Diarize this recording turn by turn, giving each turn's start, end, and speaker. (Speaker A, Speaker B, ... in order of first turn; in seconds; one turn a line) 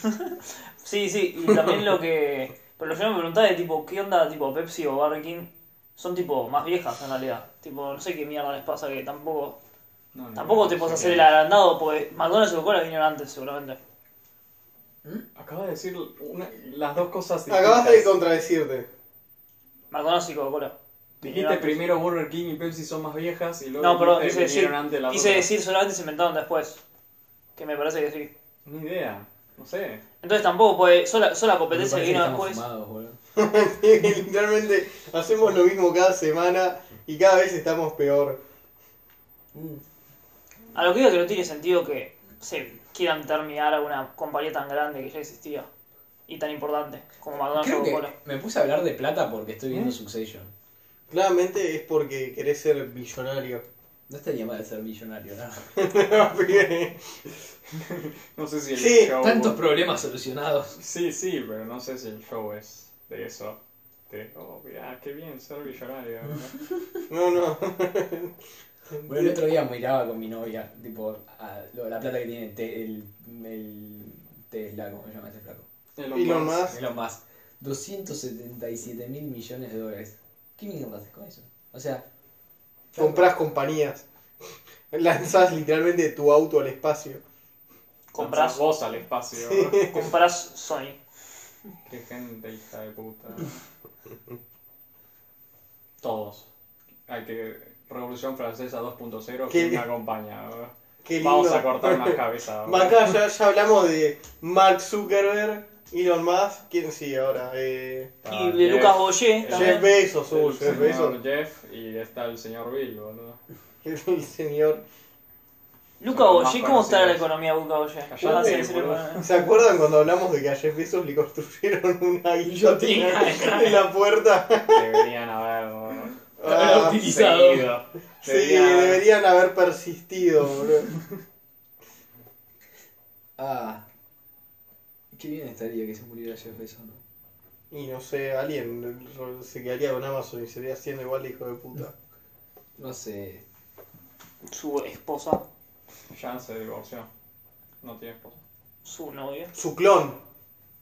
Speaker A: 0.3-9.6
Speaker B: 1.5-1.8
Speaker C: 10.1-11.3
Speaker A: 10.3-13.8
Speaker C: 15.3-18.1
Speaker B: 17.5-18.9
Speaker A: 19.9-21.8
Speaker C: 21.2-25.5
Speaker A: 23.8-26.8
Speaker A: 27.6-28.3
Speaker C: 28.6-30.0
Speaker A: 30.2-32.6
Speaker D: 31.7-33.2
Speaker B: 33.3-38.4
Speaker D: 39.5-39.8
Speaker A: 40.7-45.7
Speaker A: 46.3-48.1
Speaker D: 47.5-50.5
Speaker B: 49.7-50.0
Speaker B: 51.1-53.6
Speaker D: 54.1-55.6
Speaker B: 55.8-57.0
Speaker C: 57.7-59.6
Speaker B: 58.7-59.2
Speaker D: 59.2-60.7
Speaker C: 60.8-66.6
Speaker B: 67.1-68.3
Speaker B: 68.9-69.4
Speaker D: 69.0-75.7
Speaker C: 76.0-76.7
Speaker B: 76.1-76.8
Speaker D: 76.7-82.0
Speaker B: 82.9-84.0
Speaker D: 83.0-83.3
Speaker B: 84.9-87.2
Speaker A: 88.1-88.6
Speaker C: 88.2-90.1
Speaker B: 89.4-90.1
Speaker A: 89.9-91.0
Speaker C: 91.9-93.6
Speaker C: 96.0-96.5
Speaker C: 97.1-103.0
Speaker B: 99.5-99.8
Speaker B: 101.0-108.1
Speaker C: 108.2-113.4
Speaker A: 108.3-109.9
Speaker B: 109.5-111.2
Speaker B: 113.8-114.8
Speaker A: 116.0-119.3
Speaker C: 116.1-117.3
Speaker C: 118.1-119.3
Speaker B: 119.2-125.0
Speaker D: 122.4-123.8
Speaker C: 124.7-126.2
Speaker B: 126.4-127.0
Speaker D: 126.4-127.7
Speaker C: 126.8-129.0
Speaker B: 128.2-131.0
Speaker D: 133.4-133.8
Speaker D: 135.1-137.0
Speaker B: 137.7-141.9
Speaker D: 142.8-143.4
Speaker A: 144.4-145.4
Speaker C: 146.1-147.1
Speaker C: 147.8-148.4
Speaker A: 148.8-149.5
Speaker B: 149.5-150.2